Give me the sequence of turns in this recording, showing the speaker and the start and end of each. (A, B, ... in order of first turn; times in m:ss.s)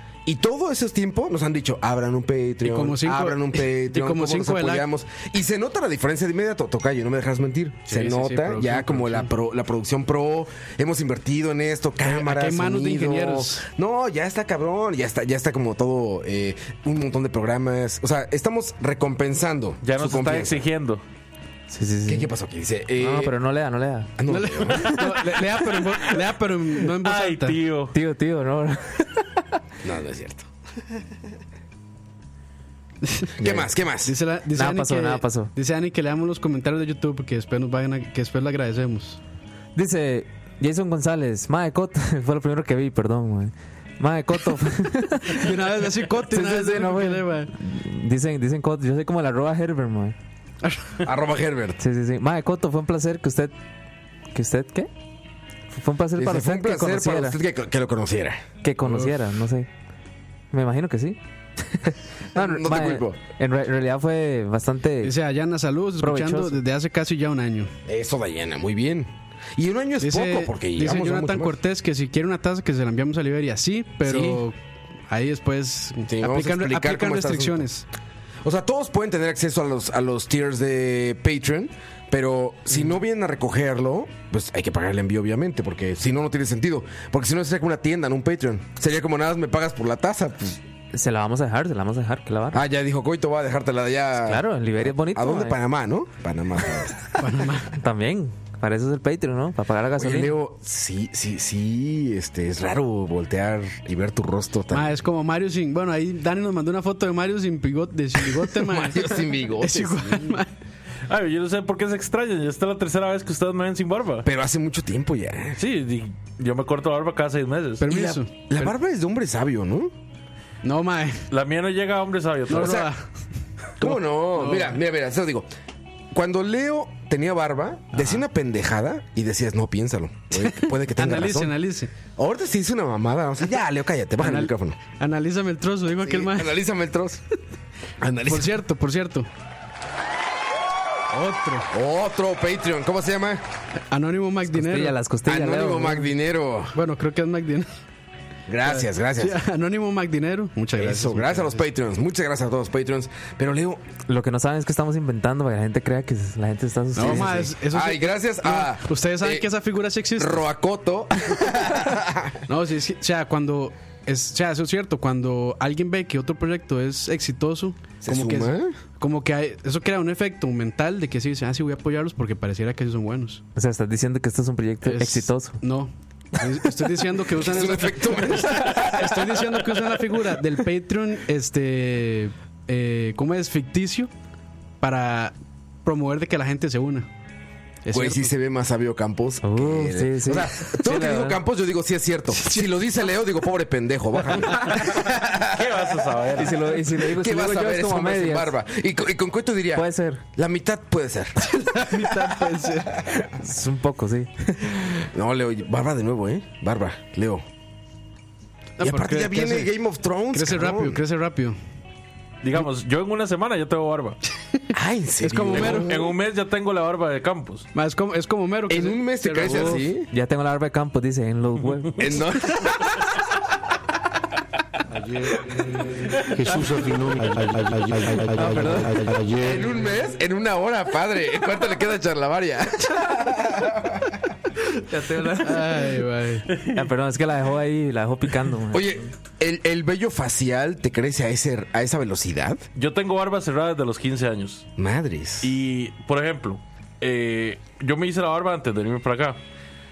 0:00.2-0:20.7 A
0:02.6-0:04.9 B
0:07.9-0:09.3 B
0:12.0-0:13.6 B
0:19.8-0:21.0 C
0:21.7-0:22.3 D
0:22.1-0:23.4 A
0:23.0-0:24.1 D
0:24.2-0:25.2 A
0:24.3-0:27.6 B
0:24.7-0:25.0 D
0:27.0-0:28.0 C
0:27.9-0:29.3 D
0:29.8-0:30.5 A
0:33.0-0:39.2 B
0:33.4-0:34.1 A
0:34.6-0:35.5 D
0:39.8-0:45.5 D
0:45.3-0:47.5 B
0:46.3-0:50.2 D
0:50.6-0:51.0 B
0:51.0-0:51.8 A
0:51.8-0:53.5 D
0:54.3-0:54.9 D
0:55.7-0:57.4 D
0:56.2-0:58.4 A
0:58.6-0:59.7 D
1:00.5-1:05.2 D
1:02.3-1:03.2 A
1:05.0-1:07.7 B
1:06.0-1:06.6 D
1:07.9-1:11.6 A
1:10.0-1:14.6 B
1:14.0-1:14.4 A
1:15.1-1:17.8 B
1:16.1-1:17.7 A
1:18.4-1:30.6 A
1:30.9-1:32.6 D
1:32.5-1:37.2 A
1:34.2-1:35.6 D
1:37.2-1:37.8 B
1:37.7-1:40.4 D
1:40.0-1:45.0 A
1:44.7-1:50.5 B
1:48.5-1:50.4 A
1:51.1-1:54.3 C
1:54.2-1:55.6 A
1:55.6-1:57.8 C
1:57.8-1:58.7 B
1:57.9-1:59.9 A
2:00.6-2:01.3 B
2:01.3-2:02.9 C
2:02.5-2:03.0 B
2:02.5-2:02.9 A
2:03.8-2:05.5 A
2:03.8-2:04.8 B
2:06.1-2:11.6 A
2:10.4-2:11.9 B
2:12.2-2:14.8 A
2:14.2-2:16.6 B
2:16.0-2:17.2 A
2:18.0-2:18.6 A
2:18.3-2:19.3 B
2:21.1-2:21.7 B
2:21.7-2:23.4 A
2:23.9-2:25.0 B
2:24.5-2:26.1 D
2:25.3-2:26.8 A
2:26.7-2:27.7 B
2:28.5-2:29.4 A
2:28.6-2:31.6 B
2:30.8-2:33.8 A
2:34.1-2:37.5 D
2:37.0-2:40.5 B
2:37.0-2:39.5 A
2:40.2-2:42.4 A
2:42.5-2:53.4 B
2:48.0-2:48.8 A
2:53.6-2:55.6 D
2:54.8-3:04.1 B
2:57.3-2:59.4 A
3:04.8-3:07.1 B
3:07.8-3:08.3 B
3:07.9-3:16.0 A
3:09.4-3:11.4 D
3:12.4-3:12.7 B
3:15.5-3:16.7 C
3:16.4-3:18.5 D
3:16.9-3:22.3 A
3:19.8-3:20.2 D
3:21.6-3:23.0 B
3:22.9-3:23.3 A
3:23.4-3:24.3 D
3:24.5-3:27.4 A
3:28.8-3:29.7 B
3:28.8-3:31.0 A
3:30.3-3:31.6 B
3:32.4-3:34.2 C
3:34.7-3:36.1 A
3:35.2-3:36.1 B
3:35.5-3:37.7 C
3:37.8-3:39.8 B
3:38.7-3:40.1 A
3:39.4-3:42.1 D
3:42.0-3:43.0 A
3:44.9-3:49.7 E
3:48.3-3:49.1 D
3:49.4-3:54.1 A
3:54.9-3:55.9 D
3:55.4-3:56.5 B
3:56.5-3:56.8 C
3:56.7-3:59.1 D
3:58.7-4:02.6 A
4:02.8-4:04.7 C
4:04.8-4:05.6 A
4:05.4-4:09.4 C